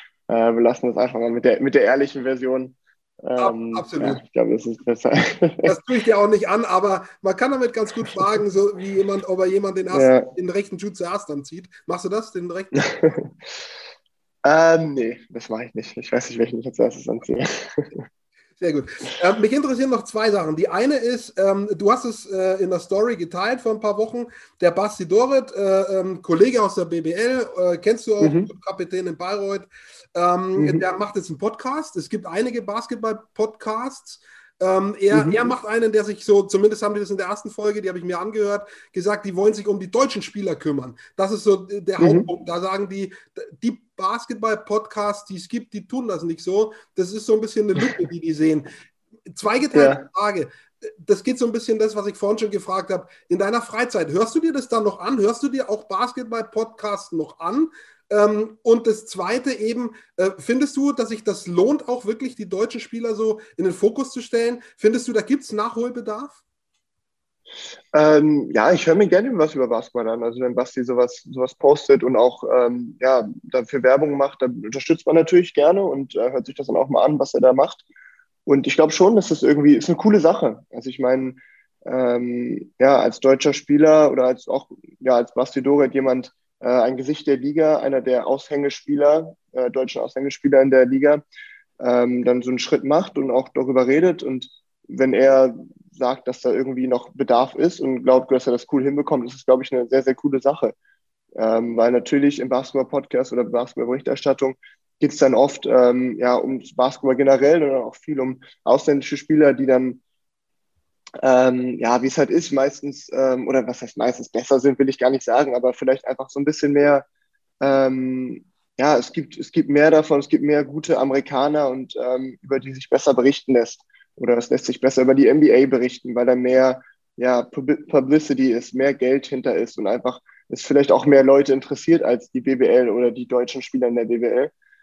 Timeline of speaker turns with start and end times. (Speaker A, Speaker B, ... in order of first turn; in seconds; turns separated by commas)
Speaker A: 0.3-5.7, Speaker B: 3.4-4.2, Speaker B: 5.6-12.9, Speaker A: 9.9-10.3, Speaker A: 12.8-13.3, Speaker A: 14.4-18.0, Speaker B: 18.6-48.7, Speaker A: 28.2-28.5, Speaker A: 30.6-30.8, Speaker A: 35.1-35.4, Speaker A: 42.0-42.3, Speaker B: 49.3-66.4, Speaker A: 49.7-50.0, Speaker A: 67.9-77.8, Speaker A: 78.5-91.2, Speaker A: 91.8-100.7, Speaker A: 101.3-110.0, Speaker A: 111.2-117.0, Speaker A: 117.6-134.5